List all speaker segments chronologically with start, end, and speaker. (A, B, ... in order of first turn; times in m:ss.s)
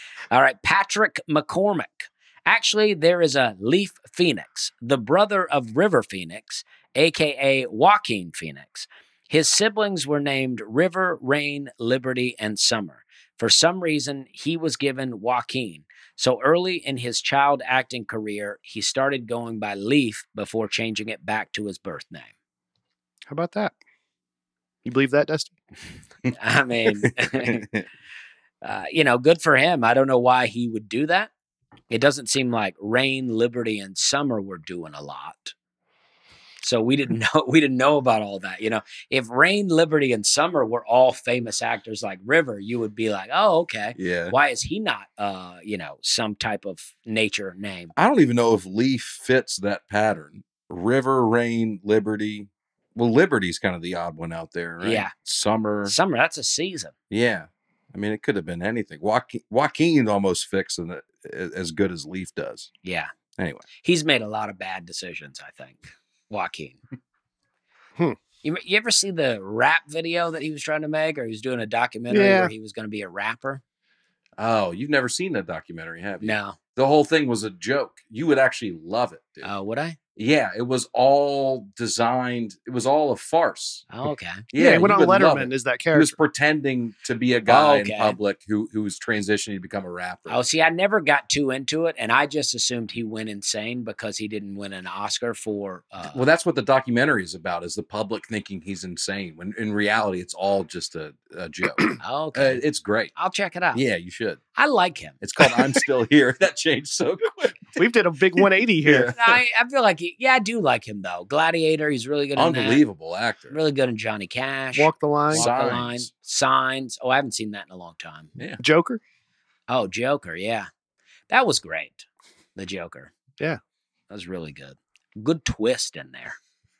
0:00.3-0:22.3 A
0:23.3-0:23.7 B
0:24.8-0:25.5 B
0:26.4-0:27.6 A
0:27.0-0:27.8 C
0:28.6-0:31.3 A
0:31.9-0:35.5 A
0:36.6-0:47.9 A
0:44.0-0:44.3 C
0:47.9-0:55.9 C
0:54.8-0:55.1 A
0:55.8-0:56.9 A
0:57.1-1:02.7 C
1:02.8-1:03.1 A
1:03.4-1:03.6 C
1:03.8-1:06.8 A
1:08.4-1:13.6 A
1:12.1-1:12.5 B
1:14.4-1:19.5 C
1:16.2-1:16.6 A
1:19.4-1:20.0 A
1:20.2-1:23.8 C
1:23.9-1:24.4 A
1:24.5-1:30.4 C
1:24.6-1:26.1 B
1:27.5-1:28.2 A
1:30.3-1:36.2 A
1:36.0-1:43.1 C
1:42.0-1:42.6 A
1:43.1-1:43.8 A
1:43.7-1:44.4 C
1:44.6-1:45.2 A
1:45.2-1:47.8 C
1:47.8-1:49.2 B
1:48.8-1:49.2 C
1:49.1-1:52.8 A
1:52.4-1:53.6 C
1:53.5-1:58.3 A
1:54.7-1:55.5 B
1:55.3-1:56.1 C
1:58.6-1:59.0 B
1:59.7-2:00.7 A
2:01.3-2:02.0 A
2:02.6-2:03.1 A
2:04.1-2:06.4 A